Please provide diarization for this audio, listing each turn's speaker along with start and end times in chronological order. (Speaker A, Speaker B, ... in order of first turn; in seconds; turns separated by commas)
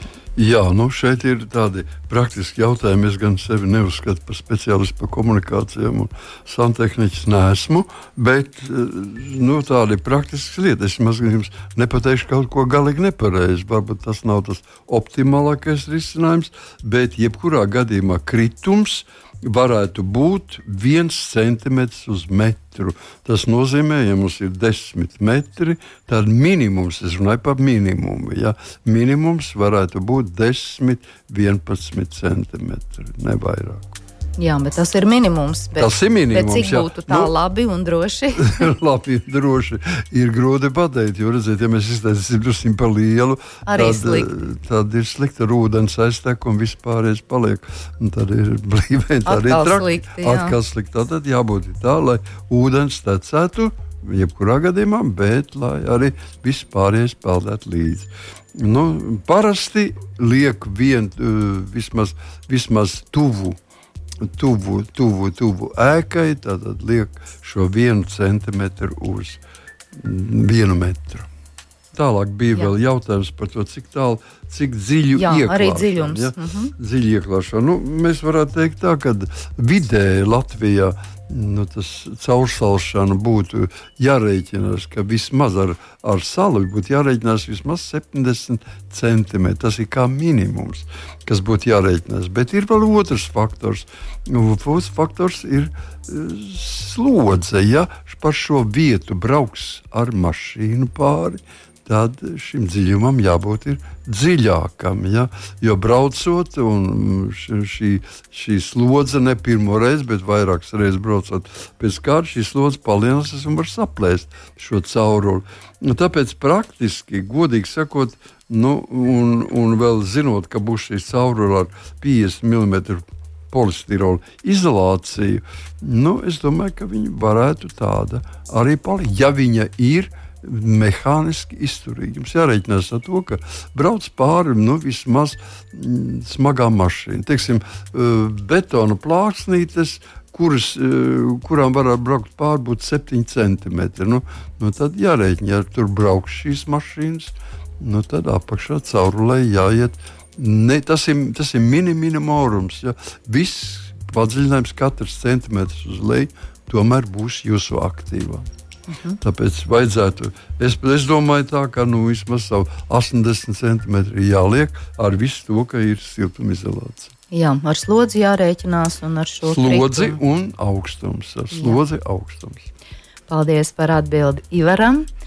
Speaker A: 0.3-34.0, Speaker B: 34.4-38.7, Speaker A: 35.8-37.3, Speaker A: 38.4-63.6, Speaker B: 43.6-44.3, Speaker B: 49.2-50.5, Speaker A: 64.2-69.4, Speaker A: 69.9-71.3, Speaker A: 71.9-158.5, Speaker B: 75.2-76.7, Speaker B: 158.9-159.2, Speaker A: 159.2-167.1, Speaker B: 167.3-170.2, Speaker A: 169.4-172.7, Speaker B: 171.5-171.8, Speaker B: 173.3-175.1